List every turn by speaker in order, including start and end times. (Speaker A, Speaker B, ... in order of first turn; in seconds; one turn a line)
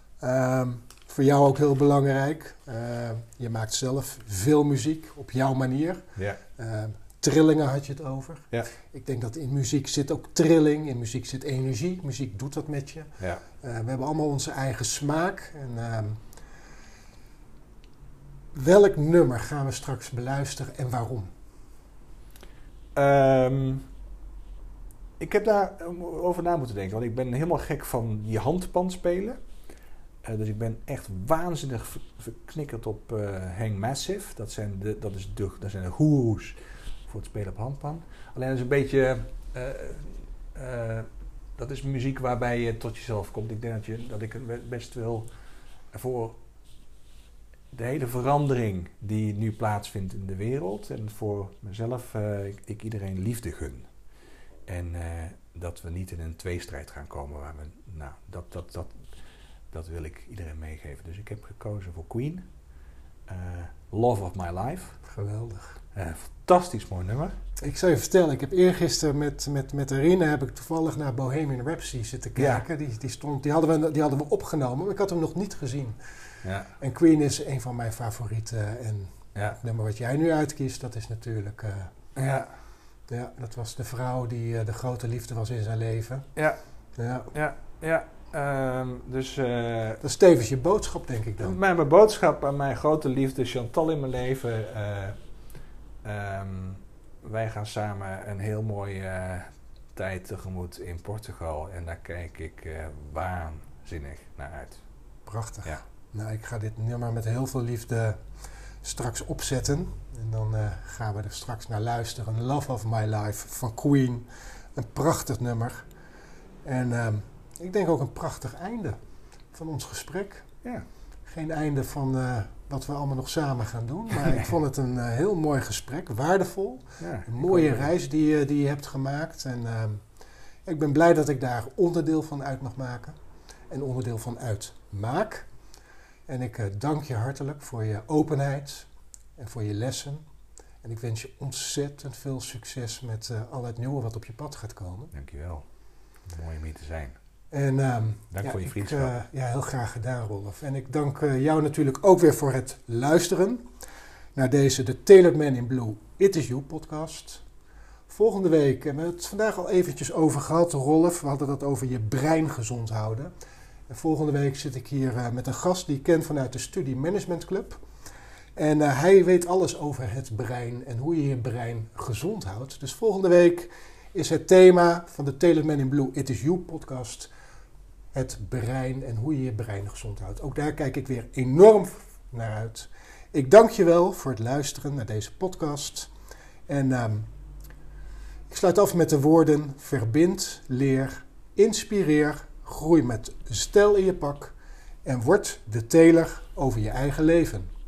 Speaker A: 0.2-6.0
Speaker A: 6.5-16.3
Speaker A: 18.5-21.3
Speaker B: 22.9-23.9
Speaker B: 25.2-29.4
Speaker B: 30.2-45.3
Speaker B: 45.9-46.4
Speaker B: 47.7-53.9
Speaker B: 54.7-59.0
Speaker B: 59.7-62.5
Speaker B: 63.3-65.0
Speaker A: 65.1-65.8
Speaker B: 65.9-67.4
Speaker A: 67.6-76.0
Speaker B: 72.4-72.6
Speaker B: 76.4-76.7
Speaker A: 76.8-82.0
Speaker B: 82.2-82.5
Speaker A: 83.1-86.3
Speaker A: 87.0-87.3
Speaker B: 87.3-90.0
Speaker A: 90.0-91.6
Speaker B: 91.4-95.2
Speaker B: 96.0-104.8
Speaker A: 105.3-115.9
Speaker A: 116.6-119.0
Speaker A: 119.5-120.5
Speaker A: 121.3-130.1
Speaker B: 124.2-124.5
Speaker B: 127.0-127.9
Speaker A: 130.6-133.1
Speaker A: 133.7-135.5
Speaker A: 136.3-140.2
Speaker A: 140.8-145.1
Speaker B: 145.1-145.7
Speaker B: 146.2-147.2
Speaker A: 147.5-153.7
Speaker B: 148.3-149.1
Speaker A: 154.3-157.4
Speaker A: 158.1-163.3
Speaker A: 163.9-167.8
Speaker A: 168.6-177.3
Speaker A: 178.1-186.1
Speaker A: 186.7-187.3
Speaker A: 188.5-197.7